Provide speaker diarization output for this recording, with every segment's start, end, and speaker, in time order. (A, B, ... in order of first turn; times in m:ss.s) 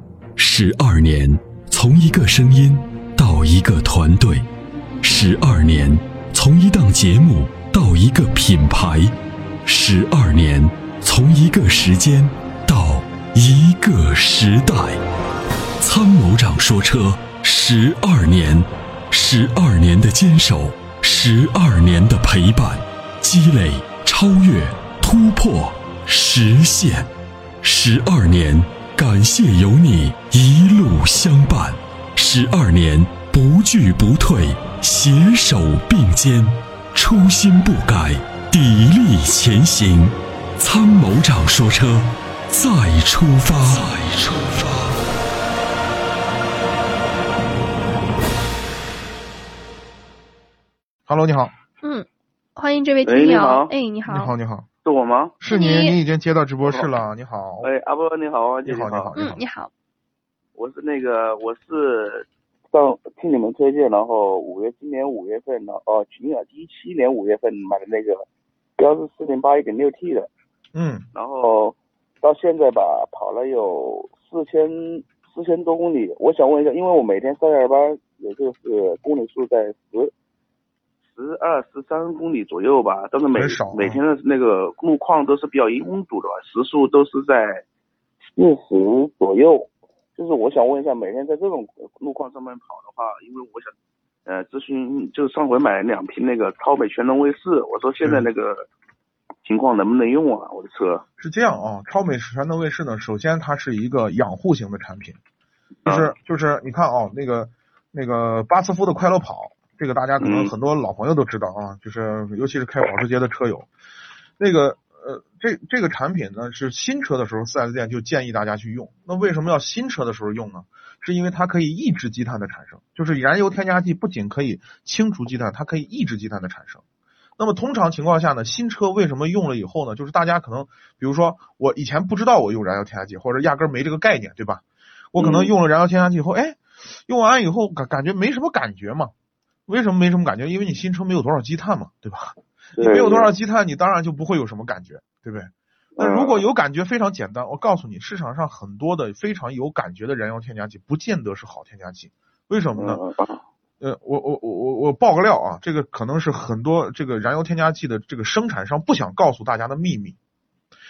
0:00.4-0:04.4 A
0:05.0-0:09.1 A
0:09.6-0:15.0 A
0:15.8-0:27.1 A
0:27.6-0:44.8 A
0:51.1-0:51.5 B
0:51.8-0:54.3 C
0:53.0-0:53.7 D
0:54.1-0:54.7 B
0:54.8-0:55.3 D
0:55.4-0:57.7 B
0:55.4-0:56.0 C
0:56.6-0:56.9 D
0:57.6-0:59.2 D
0:58.6-0:59.4 B
0:59.2-0:59.7 C
1:00.6-1:08.2 D
1:08.8-1:10.3 D
1:10.7-1:11.0 B
1:11.1-1:20.1 D
1:21.1-1:27.6 D
1:23.3-1:24.0 B
1:28.4-1:33.7 D
1:34.2-1:38.7 D
1:39.4-1:41.0 D
1:41.2-1:45.2 B
1:45.8-1:46.1 D
1:45.8-1:53.7 B
1:50.2-1:50.5 D
1:54.4-2:06.8 B
2:07.4-2:19.1 B
2:15.2-2:15.5 D
2:19.7-2:33.0 B
2:22.8-2:23.3 D
2:26.0-2:26.4 D
2:32.8-2:33.4 D
2:33.8-2:40.2 B